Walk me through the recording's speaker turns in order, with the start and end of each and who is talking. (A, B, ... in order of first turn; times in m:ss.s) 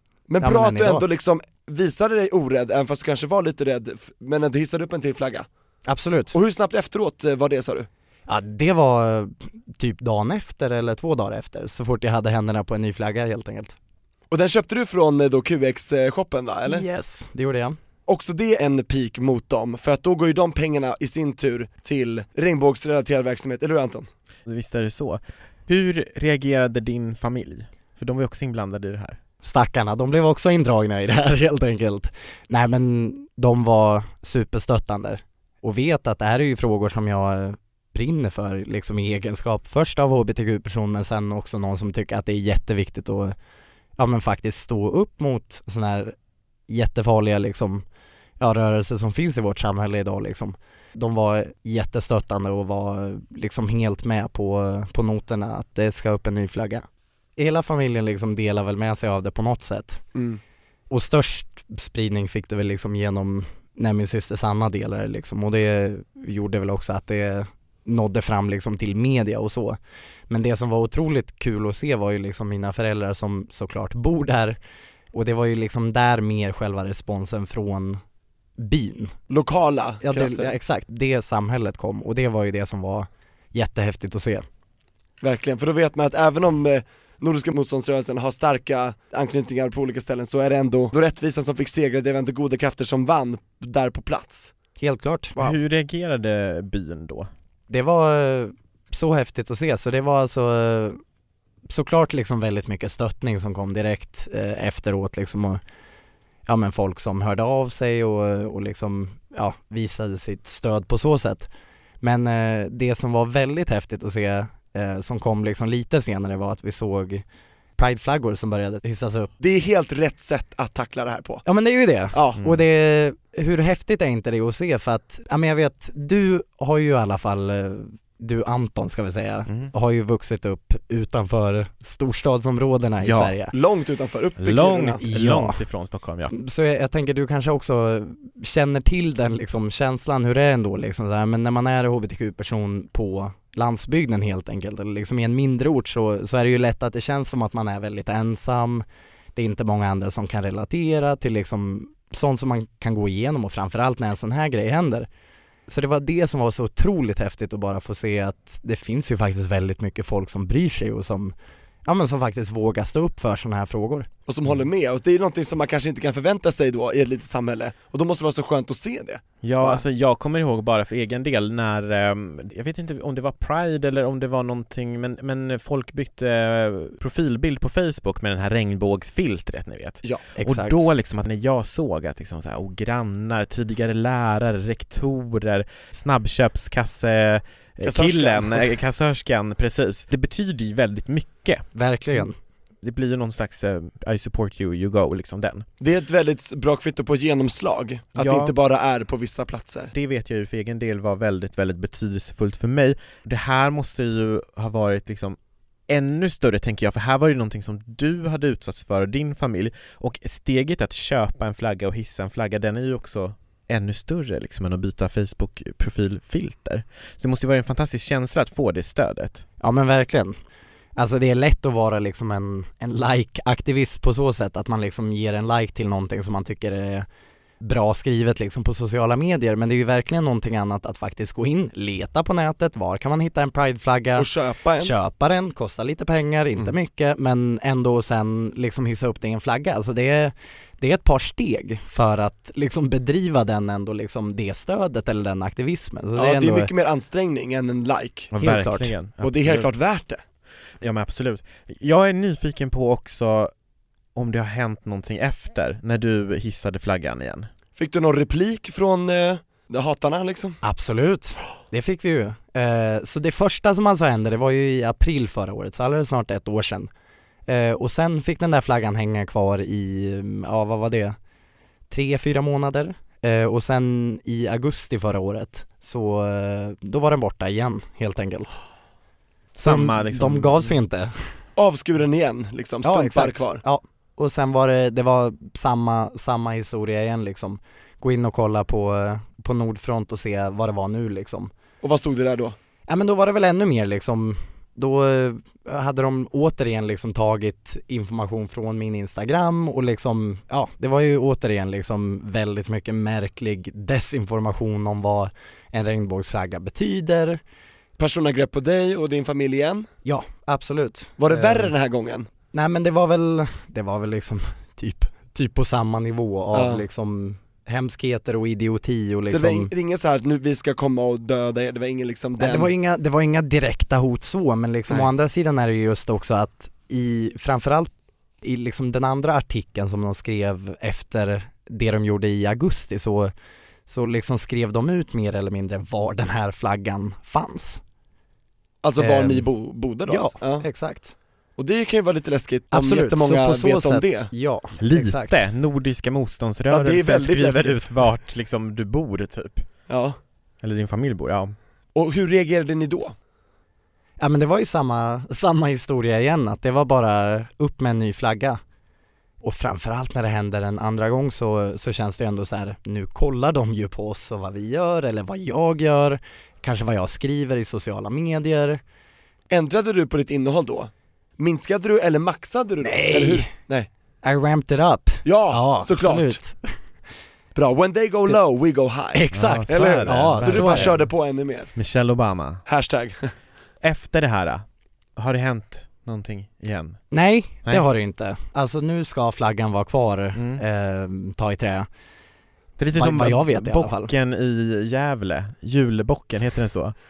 0:00.3-0:05.5 A
0:00.4-0:01.1 B
0:05.9-0:06.3 B
0:06.3-0:07.9 A
0:08.3-0:13.7 B
0:14.3-0:16.8 A
0:16.7-0:17.8 B
0:18.1-0:24.1 A
0:24.4-0:29.2 C
0:29.4-0:43.3 B
0:44.0-0:46.1 B
0:46.7-0:47.8 B
0:48.4-0:56.8 B
0:57.4-1:00.0 B
1:00.1-1:00.4 A
1:00.9-1:09.8 B
1:10.3-1:14.6 B
1:15.1-1:18.0 B
1:18.6-1:19.1 B
1:19.3-1:20.5 A
1:20.0-1:24.4 B
1:25.2-1:34.5 A
1:34.8-1:35.3 B
1:35.4-1:37.3 C
1:37.7-1:41.0 B
1:41.7-1:45.6 B
1:46.4-1:51.5 B
1:52.0-1:57.2 B
1:57.8-1:59.3 B
1:59.4-2:01.4 A
2:01.4-2:13.5 B
2:02.1-2:02.4 A
2:13.0-2:13.3 C
2:13.5-2:15.0 A
2:14.4-2:16.3 C
2:15.0-2:15.6 B
2:16.3-2:35.1 B
2:35.7-2:41.3 B
2:41.8-2:44.1 B
2:44.3-2:49.8 A
2:49.4-3:11.6 C
3:00.4-3:00.8 B
3:07.8-3:08.7 A
3:11.7-3:12.4 B
3:12.8-3:15.6 C
3:15.8-3:19.9 A
3:18.2-3:18.5 C
3:19.9-3:25.4 C
3:25.9-3:39.4 C
3:39.6-3:40.3 B
3:41.0-3:47.0 B
3:47.6-3:54.3 B
3:54.2-3:54.9 A
3:54.8-4:06.7 B
4:06.2-4:08.3 A
4:08.3-4:09.7 C
4:08.4-4:08.9 B
4:09.2-4:10.2 A
4:10.8-4:13.5 C
4:14.1-4:17.5 C
4:17.8-4:20.6 A
4:20.6-4:26.9 B
4:27.5-4:31.2 B
4:31.9-4:38.6 B
4:39.6-4:40.7 C
4:39.6-4:41.1 B
4:41.6-4:43.6 A
4:42.8-4:51.5 B
4:51.8-4:52.6 A
4:52.9-5:07.4 B
5:08.0-5:09.9 A
5:10.0-5:11.7 B
5:11.2-5:12.3 A
5:12.5-5:19.7 B
5:16.5-5:16.8 A
5:19.3-5:22.7 A
5:22.4-5:27.9 B
5:28.4-5:33.3 B
5:33.9-5:37.8 B
5:38.8-5:40.6 A
5:39.0-5:39.4 B
5:40.1-5:41.1 B
5:41.6-5:44.3 A
5:42.7-5:45.4 B
5:44.8-5:49.6 C
5:46.7-5:47.9 A
5:49.9-5:50.2 A
5:50.6-5:51.5 C
5:51.9-5:53.2 A
5:54.2-5:58.6 B
5:59.4-6:08.8 B
6:09.5-6:13.9 A
6:12.8-6:13.5 B
6:14.2-6:16.7 B
6:15.2-6:16.4 A
6:17.5-6:21.7 A
6:19.1-6:20.9 B
6:19.3-6:21.1 C
6:21.8-6:22.6 C
6:22.6-6:23.3 A
6:23.8-6:24.6 C
6:25.2-6:27.0 C
6:27.1-6:31.9 B
6:30.3-6:30.6 C
6:32.8-6:36.9 C
6:32.9-6:34.1 B